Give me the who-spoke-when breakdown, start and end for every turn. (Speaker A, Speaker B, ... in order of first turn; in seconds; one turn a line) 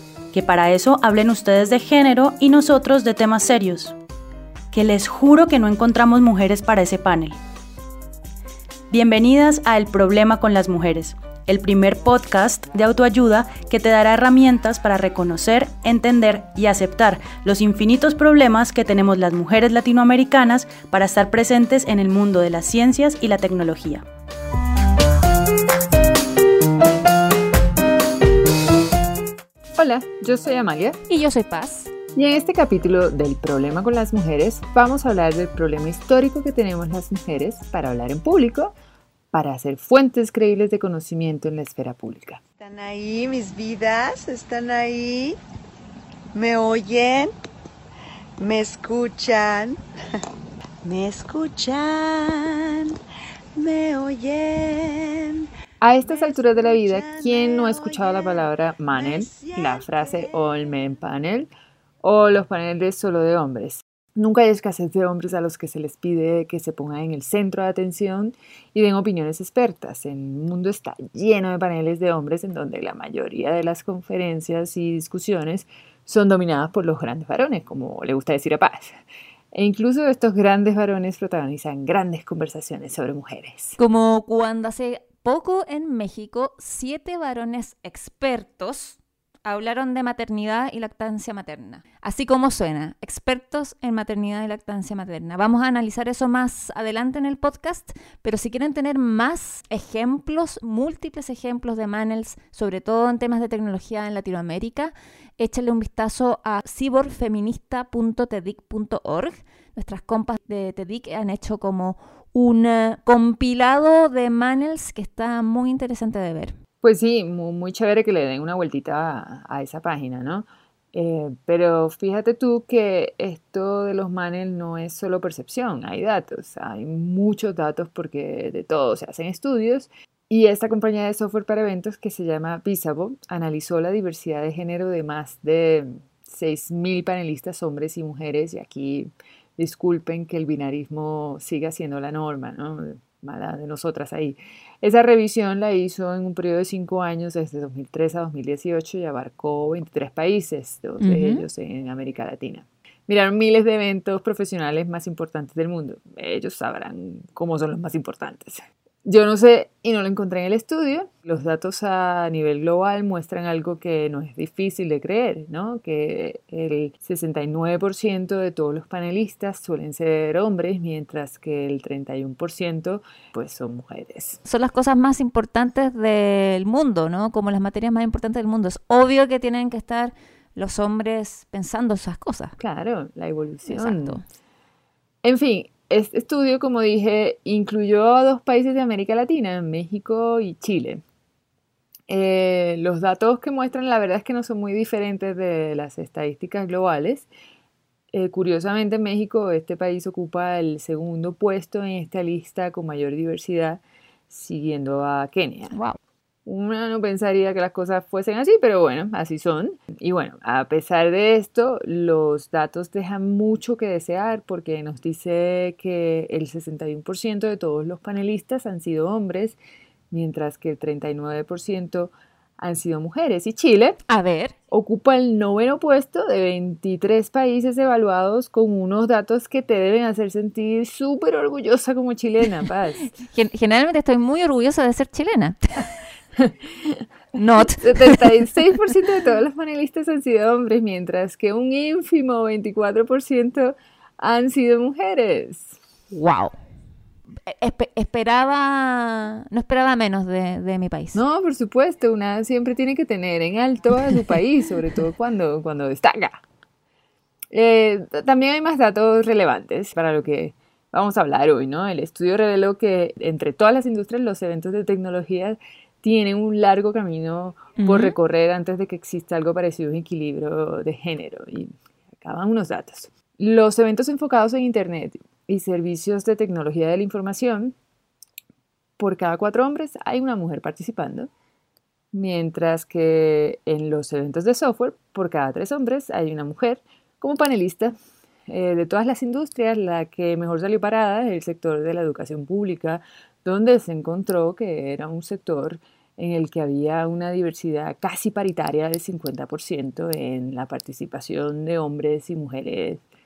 Speaker A: 0.3-4.0
Speaker A: 4.7-7.4
Speaker A: 8.9-24.0
Speaker B: 29.8-31.0
Speaker C: 31.1-31.9
Speaker B: 32.1-38.7
Speaker B: 39.3-42.4
Speaker D: 42.6-45.4
Speaker D: 46.3-47.3
Speaker D: 48.4-49.8
Speaker D: 50.8-53.0
Speaker D: 53.6-55.5
Speaker B: 55.8-61.5
Speaker D: 56.0-60.8
Speaker B: 62.0-79.0
Speaker B: 79.5-83.8
Speaker C: 83.8-116.5
Speaker B: 116.8-174.4
Speaker C: 151.0-151.4
Speaker C: 174.4-182.6
Speaker B: 182.6-184.2
Speaker C: 183.7-184.2
Speaker B: 185.2-191.0
Speaker B: 192.1-197.3
Speaker B: 198.1-205.8
Speaker C: 205.7-206.0
Speaker B: 206.5-219.6
Speaker B: 220.1-224.0
Speaker C: 224.1-224.5
Speaker B: 224.7-233.1
Speaker C: 233.2-235.9
Speaker B: 236.4-237.0
Speaker C: 237.3-238.5
Speaker B: 237.6-245.8
Speaker C: 246.1-246.5
Speaker C: 247.5-251.2
Speaker B: 251.2-256.4
Speaker B: 257.5-277.8
Speaker C: 267.8-268.1
Speaker B: 279.0-281.3
Speaker B: 282.1-287.9
Speaker B: 288.5-303.0